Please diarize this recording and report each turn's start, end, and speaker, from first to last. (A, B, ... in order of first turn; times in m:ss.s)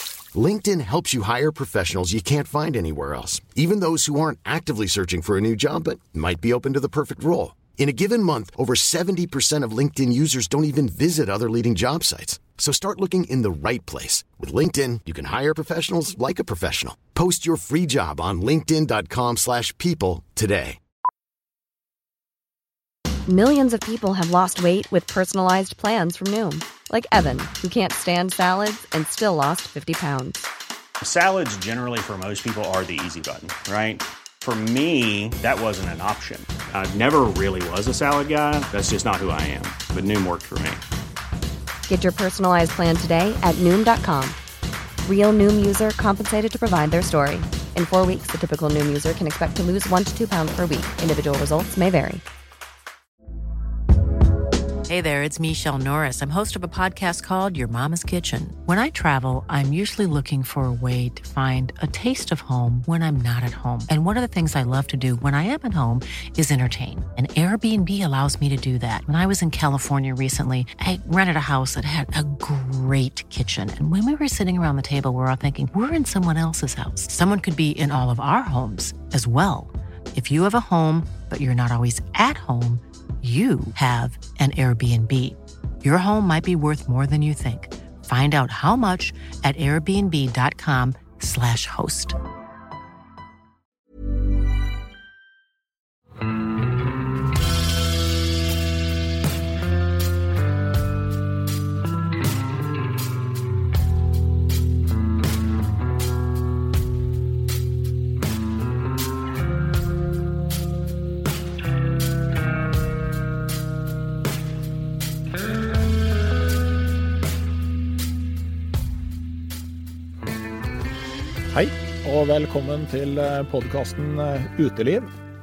0:00.3-0:20.8 A
0:23.3-0:30.4 B
0:31.0-0:40.8 C
0:41.9-0:44.4 B
0:45.0-0:52.2 B
0:54.9-1:32.2 D
2:01.5-2:05.1 E